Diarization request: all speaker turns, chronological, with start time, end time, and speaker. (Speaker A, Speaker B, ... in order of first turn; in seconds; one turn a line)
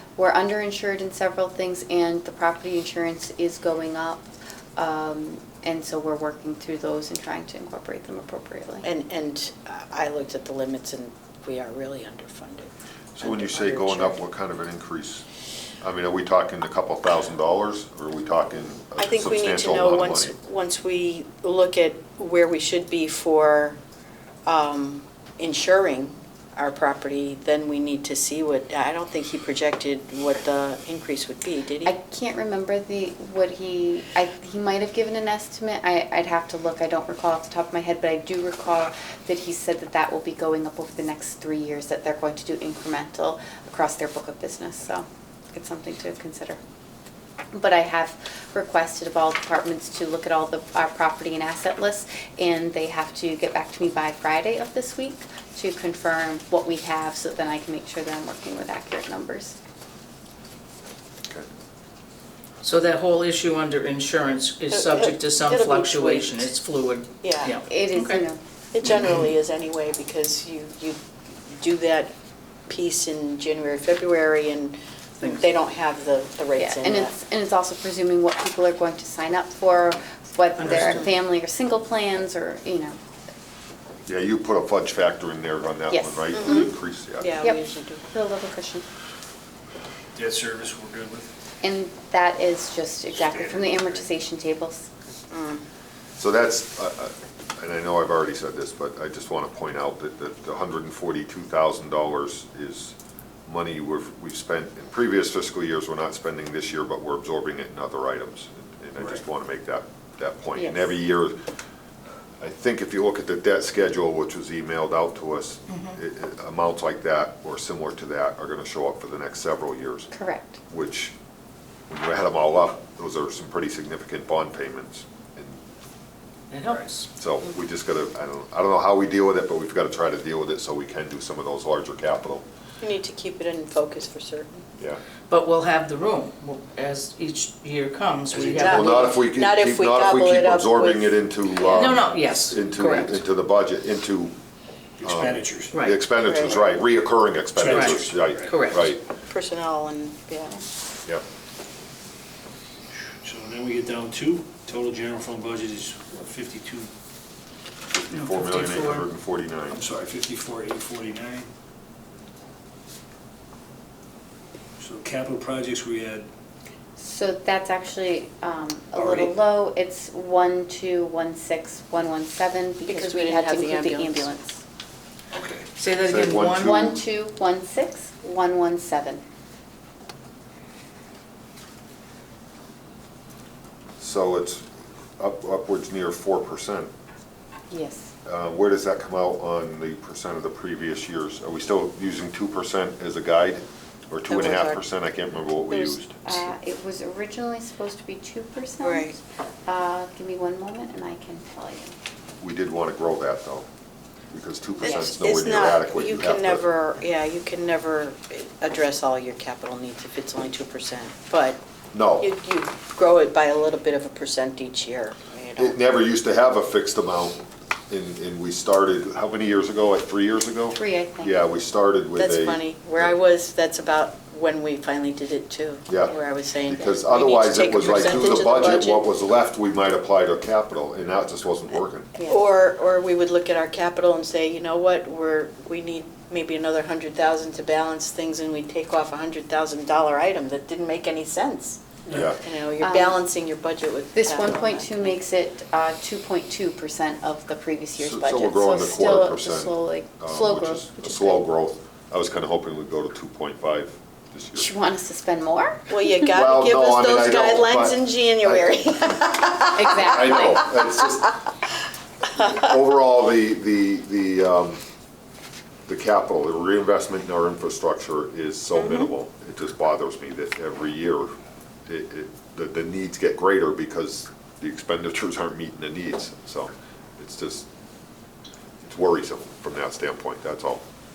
Speaker A: 0.2-8.9
Speaker B: 8.8-14.2
Speaker C: 13.2-15.2
Speaker C: 15.8-20.3
Speaker B: 19.0-23.8
Speaker B: 24.5-31.9
Speaker A: 31.8-46.6
Speaker A: 47.5-59.5
Speaker D: 62.6-68.2
Speaker B: 64.7-66.5
Speaker B: 67.2-67.6
Speaker A: 67.7-68.4
Speaker B: 68.7-72.1
Speaker B: 72.7-77.1
Speaker A: 76.5-83.0
Speaker D: 80.6-81.0
Speaker B: 80.7-81.0
Speaker C: 84.1-87.3
Speaker A: 85.9-86.7
Speaker B: 86.3-88.0
Speaker A: 87.4-88.8
Speaker E: 90.1-91.3
Speaker A: 91.6-94.9
Speaker E: 93.2-94.0
Speaker B: 95.3-95.6
Speaker C: 96.2-102.9
Speaker C: 103.5-111.3
Speaker A: 110.5-110.9
Speaker C: 112.4-120.1
Speaker A: 120.1-120.6
Speaker C: 120.7-121.1
Speaker C: 121.9-125.6
Speaker D: 126.5-127.1
Speaker C: 127.2-132.4
Speaker B: 132.8-134.6
Speaker D: 135.3-139.2
Speaker E: 138.3-138.8
Speaker C: 138.6-144.4
Speaker B: 138.6-141.9
Speaker D: 141.6-143.2
Speaker E: 145.0-145.8
Speaker C: 145.0-149.0
Speaker D: 145.7-146.0
Speaker B: 146.2-146.7
Speaker E: 147.6-148.5
Speaker D: 147.7-148.9
Speaker B: 149.3-150.6
Speaker E: 152.9-156.9
Speaker C: 157.9-159.8
Speaker D: 158.1-159.1
Speaker E: 159.7-161.5
Speaker E: 164.8-166.3
Speaker A: 167.0-174.6
Speaker E: 168.9-169.4
Speaker B: 172.9-174.3
Speaker E: 175.3-175.7
Speaker D: 175.8-176.9
Speaker C: 176.0-177.0
Speaker A: 176.6-179.2
Speaker C: 184.0-184.6
Speaker C: 185.2-186.9
Speaker A: 187.7-188.1
Speaker C: 188.2-196.2
Speaker B: 194.3-194.8
Speaker B: 195.7-196.0
Speaker A: 196.2-201.9
Speaker B: 198.8-199.2
Speaker C: 202.4-203.7
Speaker C: 204.3-206.6
Speaker B: 204.8-211.6
Speaker C: 211.9-212.3
Speaker B: 212.2-215.8
Speaker C: 215.6-223.1
Speaker A: 220.7-221.3
Speaker B: 222.2-229.1
Speaker C: 225.9-232.1
Speaker B: 232.2-245.2
Speaker C: 242.1-242.4
Speaker A: 242.8-243.2
Speaker A: 244.1-251.4
Speaker C: 248.0-254.7
Speaker A: 254.5-255.8
Speaker B: 255.9-261.2
Speaker C: 256.3-259.0
Speaker A: 259.8-260.7
Speaker C: 259.9-261.3
Speaker C: 262.3-264.8
Speaker C: 265.9-271.3
Speaker B: 268.8-269.0
Speaker C: 271.9-277.6
Speaker C: 278.8-280.8